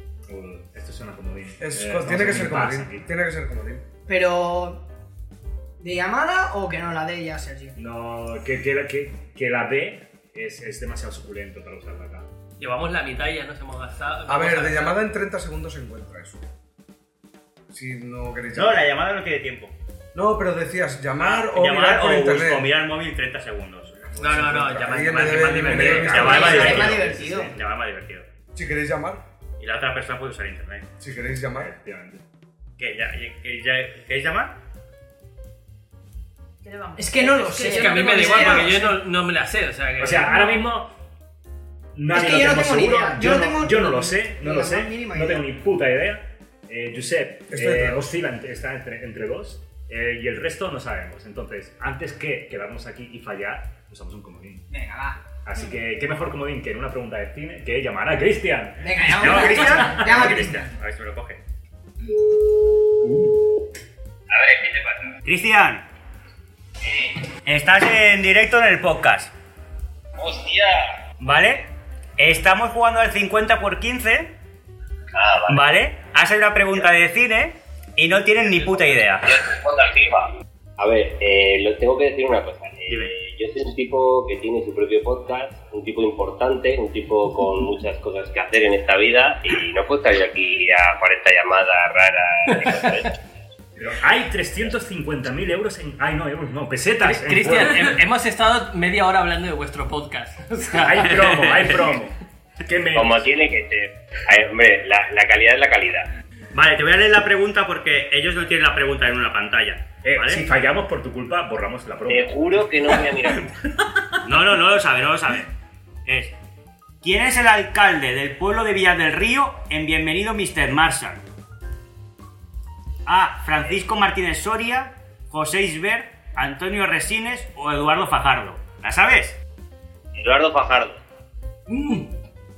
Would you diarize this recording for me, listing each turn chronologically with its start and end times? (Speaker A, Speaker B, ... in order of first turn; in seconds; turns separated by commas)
Speaker A: 0.3-3.0, Speaker B: 1.6-3.8, Speaker C: 4.1-4.8, Speaker C: 5.8-7.8, Speaker A: 7.8-12.3, Speaker D: 12.6-15.0, Speaker B: 14.3-16.4, Speaker B: 17.7-18.9, Speaker E: 18.5-19.7, Speaker B: 20.1-22.7, Speaker E: 21.2-24.0, Speaker B: 24.1-26.9, Speaker D: 24.2-26.8, Speaker A: 25.3-27.5, Speaker E: 25.7-28.3, Speaker C: 26.1-27.5, Speaker B: 28.5-29.2, Speaker E: 29.6-30.9, Speaker B: 31.0-31.7, Speaker A: 31.6-32.2, Speaker E: 32.8-34.5, Speaker F: 36.6-38.7, Speaker C: 37.0-39.0, Speaker D: 37.5-40.6, Speaker A: 40.0-40.9, Speaker A: 41.9-54.6, Speaker C: 42.1-45.5, Speaker B: 47.5-48.1, Speaker C: 54.7-55.2, Speaker A: 55.4-60.6, Speaker C: 58.8-60.7, Speaker E: 59.1-61.4, Speaker A: 63.0-63.4, Speaker G: 64.3-65.1, Speaker E: 65.2-65.8, Speaker E: 67.4-69.3, Speaker G: 70.2-70.8, Speaker E: 71.2-71.7, Speaker E: 72.2-74.3, Speaker G: 75.1-75.6, Speaker E: 75.5-79.4, Speaker G: 79.3-93.1, Speaker E: 82.9-83.1, Speaker A: 93.8-98.0, Speaker D: 97.0-101.2, Speaker A: 100.7-103.3, Speaker G: 102.9-106.1, Speaker E: 106.5-110.4, Speaker A: 110.0-113.0, Speaker G: 112.1-113.5, Speaker E: 114.2-115.5, Speaker E: 116.0-116.3, Speaker E: 117.0-121.2, Speaker E: 123.0-129.4, Speaker G: 130.1-131.0, Speaker D: 131.7-132.1